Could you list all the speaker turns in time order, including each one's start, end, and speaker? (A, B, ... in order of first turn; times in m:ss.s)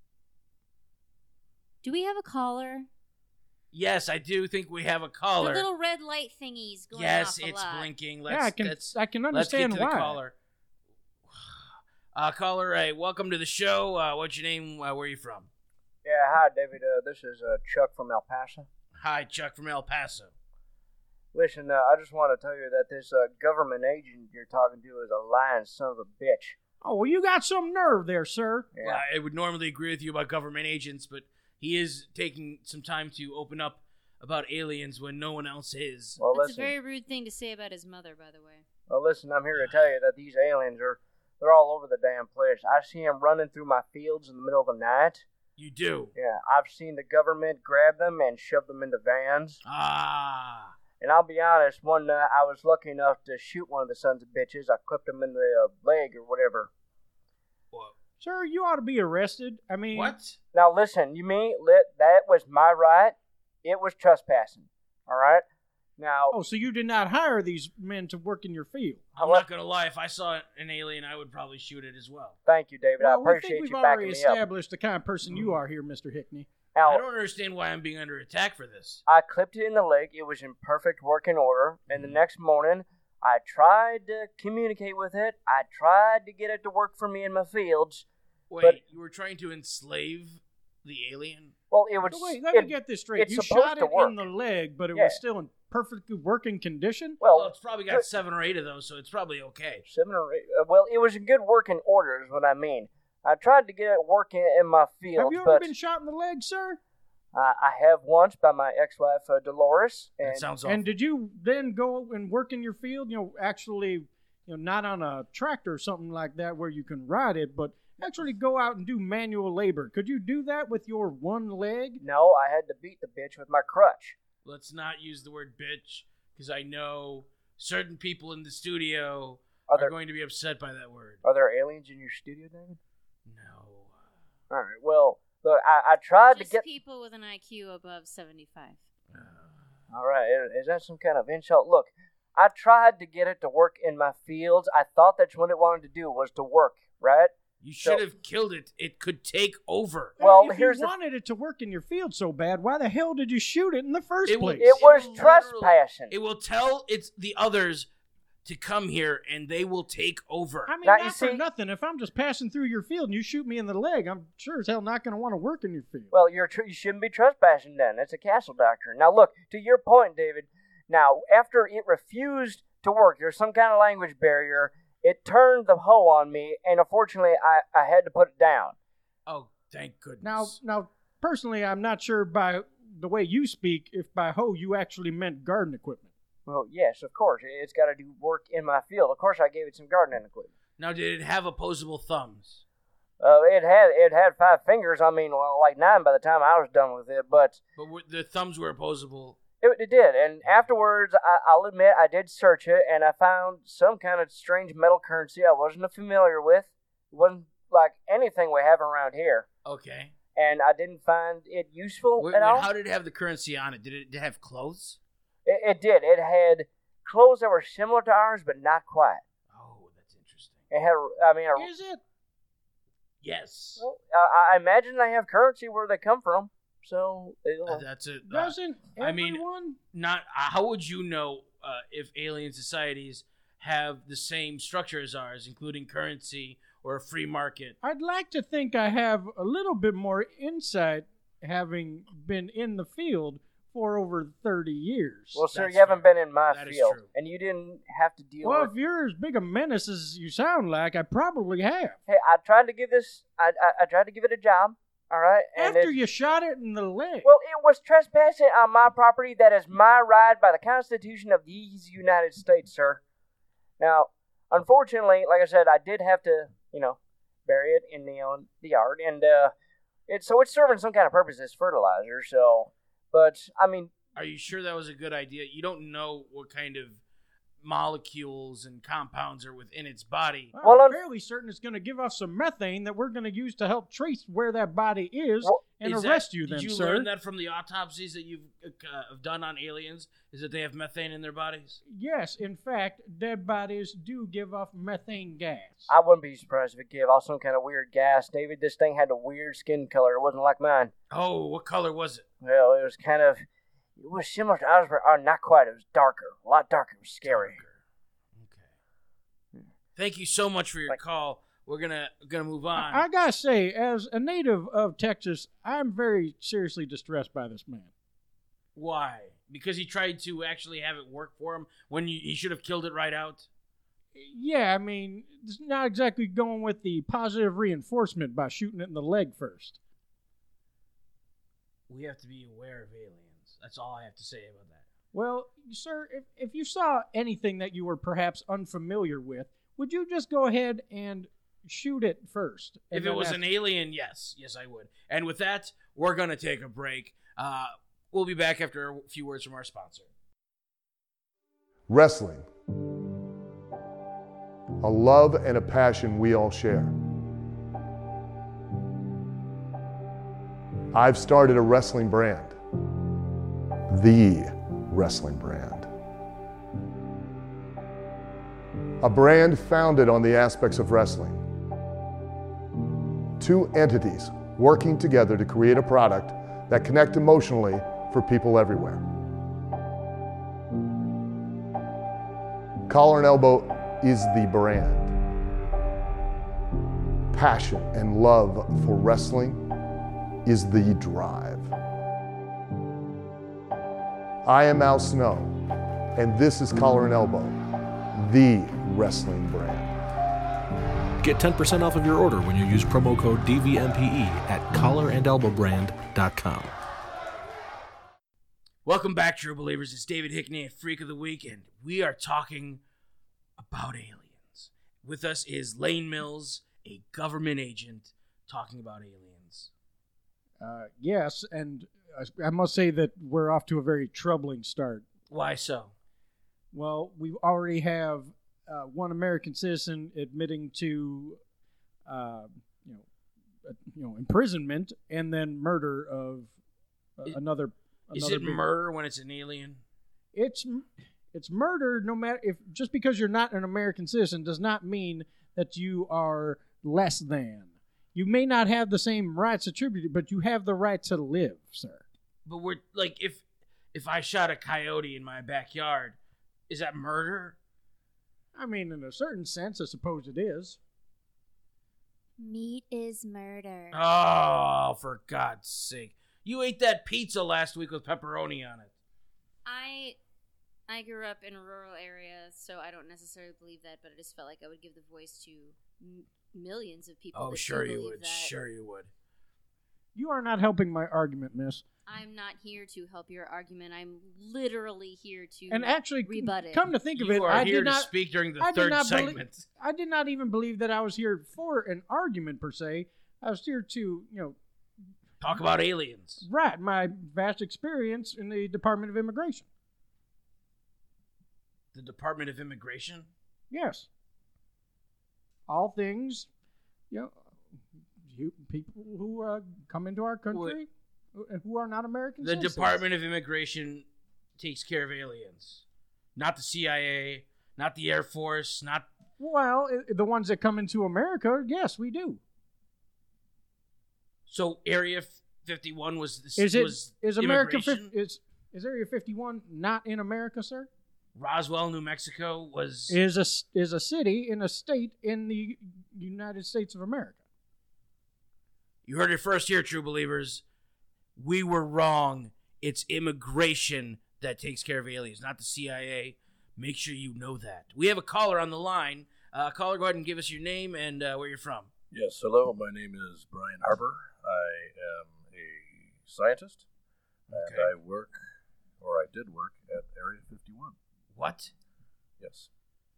0:01.8-0:02.9 A
0:03.7-0:05.6 B
0:05.4-0:07.9 A
0:06.9-0:10.3 B
0:08.3-0:10.2 C
0:11.3-0:15.5 B
0:16.0-0:18.7 D
0:19.0-0:20.3 B
0:21.3-0:26.6 D
0:26.8-0:28.7 C
0:28.7-0:29.0 D
0:28.8-0:36.2 B
0:36.2-0:36.7 D
0:36.3-0:38.6 A
0:38.9-0:45.2 D
0:45.6-0:46.1 B
0:46.2-0:49.6 D
0:49.6-0:50.8 B
0:51.0-0:56.7 D
0:58.2-1:00.1 C
0:59.9-1:00.4 B
1:00.5-1:05.4 D
1:06.0-1:06.3 D
1:06.3-1:09.0 C
1:09.2-1:12.4 B
1:09.2-1:09.4 D
1:12.4-1:14.4 D
1:13.0-1:16.5 C
1:16.7-1:17.0 D
1:16.8-1:19.0 B
1:19.1-1:28.0 D
1:21.9-1:22.2 B
1:28.5-1:31.5 B
1:31.7-1:34.2 D
1:32.1-1:37.2 C
1:34.9-1:35.2 D
1:37.2-1:38.0 D
1:37.3-1:39.8 B
1:39.9-1:45.7 D
1:45.2-1:46.8 C
1:47.3-1:50.4 D
1:50.2-1:50.9 B
1:50.6-2:02.0 C
2:02.0-2:04.2 D
2:04.4-2:11.2 B
2:11.2-2:12.8 D
2:13.2-2:14.1 B
2:14.5-2:16.6 D
2:16.3-2:18.8 A
2:19.1-2:19.5 B
2:19.9-2:28.0 D
2:27.6-2:30.2 B
2:30.2-2:34.8 C
2:30.2-2:30.9 D
2:34.3-2:37.9 B
2:34.6-2:36.1 D
2:38.4-2:40.7 B
2:40.7-2:46.1 C
2:40.8-2:41.4 D
2:46.1-2:58.8 D
2:59.3-3:00.6 B
3:00.2-3:06.1 C
3:06.5-3:10.5 D
3:10.8-3:12.6 B
3:13.2-3:17.6 D
3:17.8-3:19.4 B
3:19.6-3:29.5 D
3:29.6-3:30.1 B
3:30.3-3:32.7 D
3:32.2-3:35.0 B
3:35.4-3:39.2 D
3:39.5-3:40.6 B
3:40.7-3:41.7 D
3:41.6-3:42.0 C
3:43.2-3:43.8 B
3:43.8-3:47.8 D
3:47.7-3:57.8 B
3:48.3-3:49.8 C
3:57.8-4:05.4 C
4:05.3-4:08.7 D
4:05.5-4:07.1 B
4:08.4-4:12.0 C
4:12.1-4:15.9 D
4:15.6-4:17.3 C
4:17.2-4:23.0 D
4:23.8-4:29.5 D
4:30.1-4:33.9 D
4:34.2-4:37.0 B
4:37.6-4:40.5 B
4:40.5-4:47.1 C
4:40.6-4:41.0 D
4:45.8-4:51.8 B
4:51.8-4:55.9 C
4:55.9-5:00.9 D
5:01.1-5:02.2 B
5:02.4-5:03.4 D
5:04.0-5:07.6 D
5:07.2-5:07.8 B
5:08.4-5:08.7 B
5:10.0-5:13.0 B
5:12.8-5:17.9 C
5:18.8-5:23.5 B
5:24.1-5:29.8 C
5:31.9-5:34.8 B
5:35.1-5:43.4 C
5:42.9-5:50.1 B
5:51.9-5:52.5 E
5:54.8-5:56.9 E
6:00.9-6:02.6 E
6:03.9-6:05.9 E
6:09.0-6:11.4 E
6:13.4-6:19.0 E
6:22.9-6:25.1 E
6:27.3-6:29.6 E
6:30.4-6:31.7 E
6:34.4-6:35.6 E
6:36.2-6:37.6 E
6:38.1-6:40.0 E
6:41.2-6:46.7 F
6:48.8-6:52.8 B
6:53.6-6:59.7 B
7:00.6-7:05.0 C
7:05.3-7:05.9 B
7:06.7-7:11.4 C
7:12.1-7:13.0 C
7:13.6-7:16.5 C
7:17.2-7:18.6 C
7:18.1-7:19.8 B
7:20.3-7:32.0 C
7:32.4-7:36.2 B
7:36.7-7:37.6 B
7:38.5-7:40.8 C
7:42.4-7:44.0 A
7:43.9-7:48.9 B
7:49.6-7:50.2 A
7:50.9-7:58.5 A
7:57.3-7:59.1 B
8:00.1-8:01.8 C
8:02.1-8:06.9 A
8:05.7-8:14.6 C
8:07.1-8:09.6 B
8:15.4-8:16.4 B
8:16.4-8:19.7 C
8:21.9-8:23.3 B
8:23.7-8:24.1 C
8:25.7-8:26.5 C
8:27.1-8:27.4 C
8:28.2-8:33.0 C
8:30.5-8:30.8 B
8:32.4-8:34.0 B
8:34.6-8:35.8 B
8:36.4-8:39.1 B
8:39.4-8:42.4 C
8:44.5-8:48.1 B
8:46.6-8:50.9 C
8:51.3-8:53.2 B
8:53.1-8:57.4 C
8:59.0-9:00.6 B
9:01.4-9:11.9 B
9:12.1-9:16.8 G
9:17.5-9:18.4 G
9:17.5-9:17.9 B
9:19.0-9:21.0 G
9:21.3-9:21.7 B
9:22.4-9:22.7 G